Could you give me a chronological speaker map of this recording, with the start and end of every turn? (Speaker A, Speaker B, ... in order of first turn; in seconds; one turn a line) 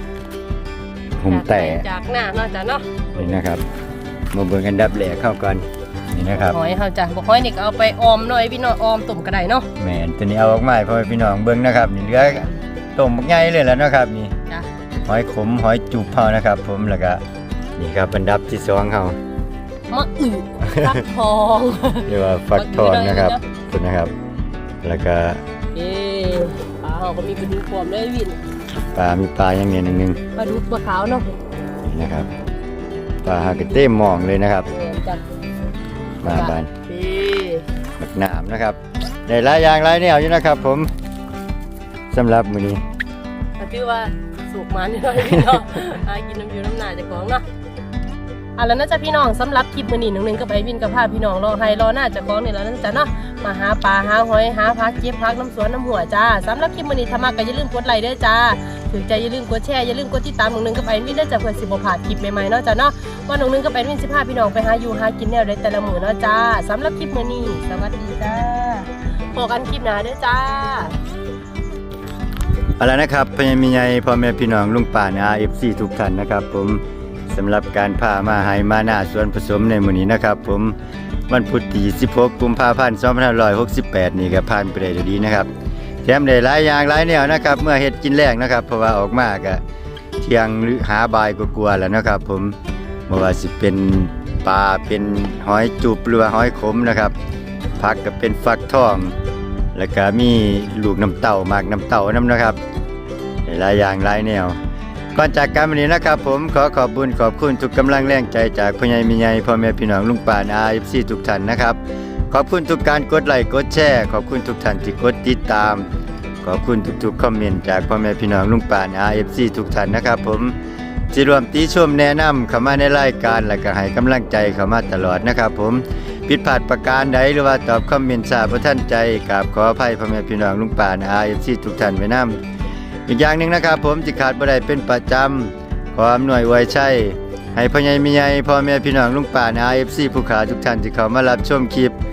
Speaker A: 1.2-1.9
Speaker B: 1.3-3.4
Speaker A: 3.1-3.6
Speaker A: 4.3-6.6
Speaker B: 6.3-9.7
Speaker A: 9.8-14.3
Speaker A: 15.0-17.2
Speaker A: 17.8-19.2
Speaker B: 19.9-23.4
Speaker A: 20.6-21.0
Speaker A: 22.1-24.1
Speaker A: 24.8-25.4
Speaker B: 25.7-28.4
Speaker A: 28.9-30.2
Speaker B: 30.4-31.4
Speaker A: 31.8-32.3
Speaker A: 33.2-34.7
Speaker B: 34.7-35.4
Speaker A: 36.2-36.7
Speaker B: 36.2-37.6
Speaker A: 38.0-40.9
Speaker A: 42.1-42.8
Speaker B: 43.6-47.4
Speaker A: 45.2-45.6
Speaker B: 48.6-71.0
Speaker A: 72.8-80.8
Speaker A: 81.3-85.5
Speaker A: 86.0-89.6
Speaker A: 90.2-92.6
Speaker A: 93.1-97.1
Speaker A: 97.8-99.2
Speaker A: 99.7-102.6
Speaker A: 103.5-104.6
Speaker A: 105.1-115.9
Speaker A: 116.4-120.5
Speaker A: 121.1-132.4
Speaker A: 133.1-141.9